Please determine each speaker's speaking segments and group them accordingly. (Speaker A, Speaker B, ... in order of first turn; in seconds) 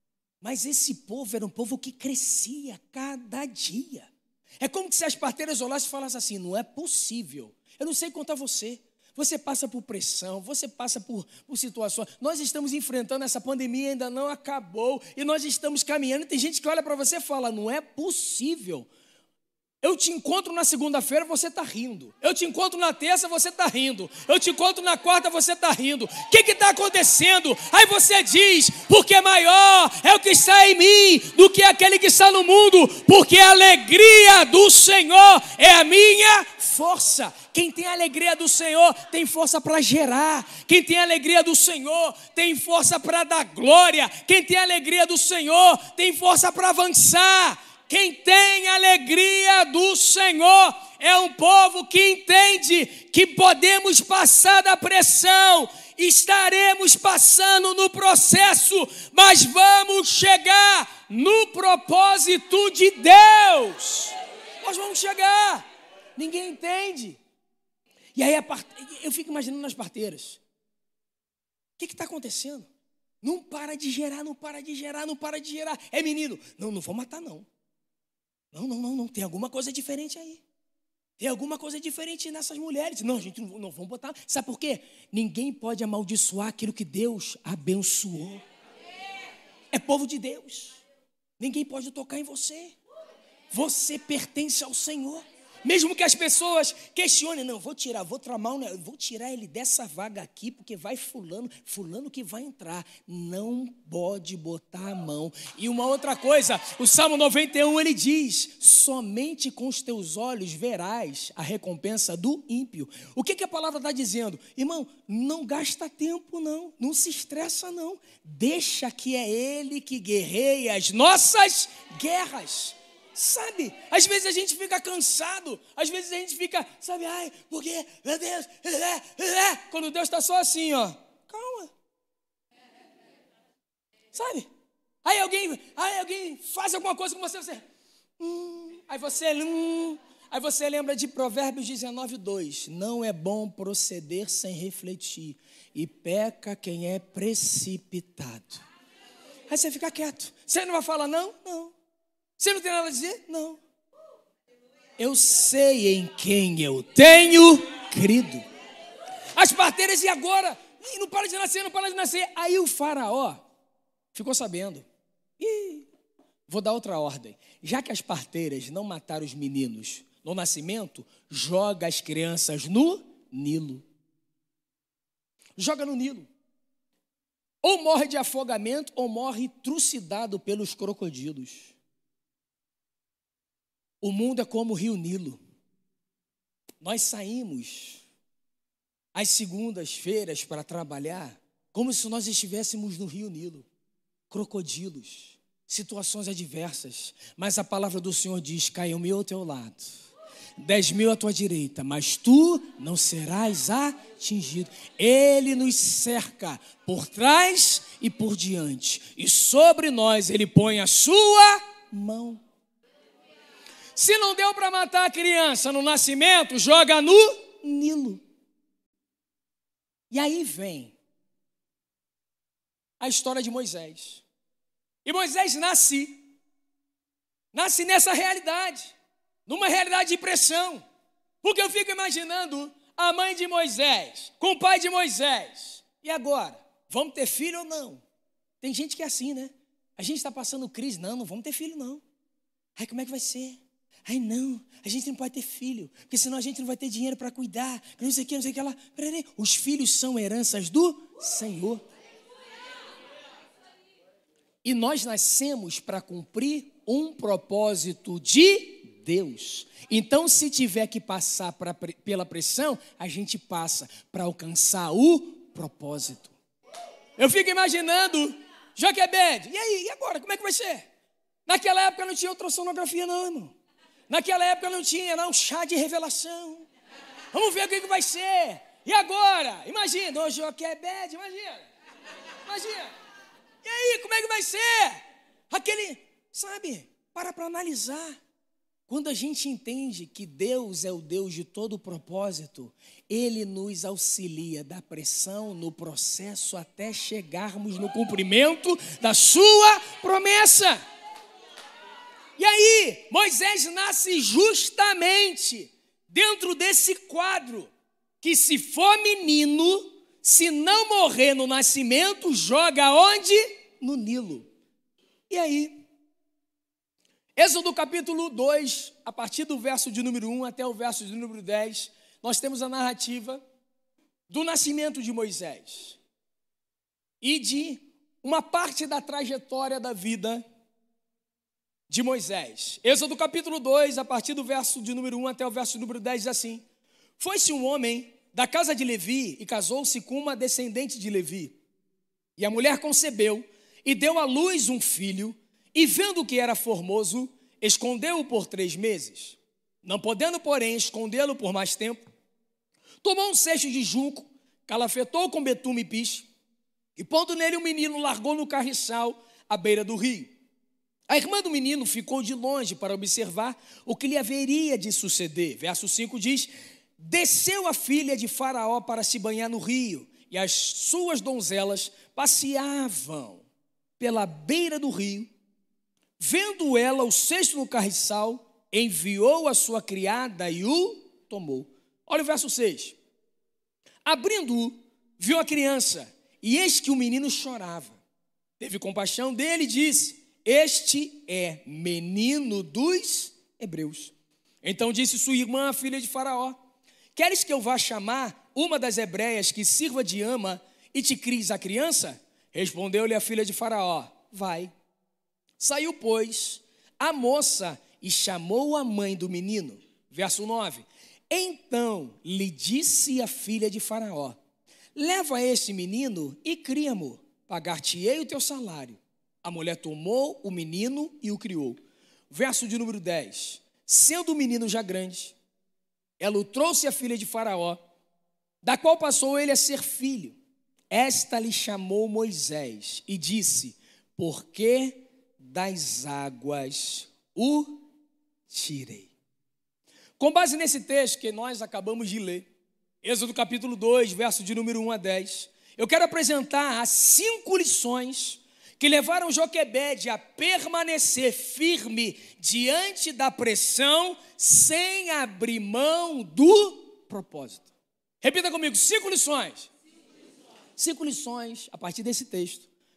Speaker A: 0.4-4.1, 4.6-18.9, 19.8-65.7, 66.2-67.2, 68.2-70.4, 71.8-72.7, 73.2-77.5, 78.5-80.4, 81.2-88.4, 89.7-90.8, 91.4-92.8, 93.5-131.7, 134.1-134.5, 135.0-137.6, 138.2-148.6, 149.5-151.7, 152.4-153.6, 155.0-158.4, 159.4-163.4, 164.1-164.9, 165.4-165.9, 166.5-173.9, 175.6-176.3, 177.6-181.8, 184.0-185.4, 186.8-188.0, 189.2-193.7, 194.3-200.0, 200.6-212.4, 213.9-218.2, 220.1-221.0, 223.0-224.2, 225.1-226.2, 227.5-228.9, 229.5-230.8, 231.4-238.0, 238.6-242.0, 242.8-251.8, 254.6-266.4, 267.2-270.9, 271.5-273.6, 274.1-276.7, 277.3-281.7, 282.4-282.9, 283.6-288.2, 288.9-300.8, 302.4-314.5, 315.3-315.8, 317.4-323.4, 324.3-326.0, 327.2-330.4, 331.9-336.6, 337.2-341.6, 342.4-352.0, 353.0-356.3, 357.0-360.4, 361.1-373.4, 374.0-375.3, 376.2-383.0, 384.1-388.0, 388.6-396.6, 397.1-404.7, 405.6-414.4, 414.9-425.4, 426.2-427.8, 428.6-430.4, 430.9-437.8, 438.5-439.1, 440.2-442.5, 443.0-457.7, 458.2-459.7, 460.8-462.7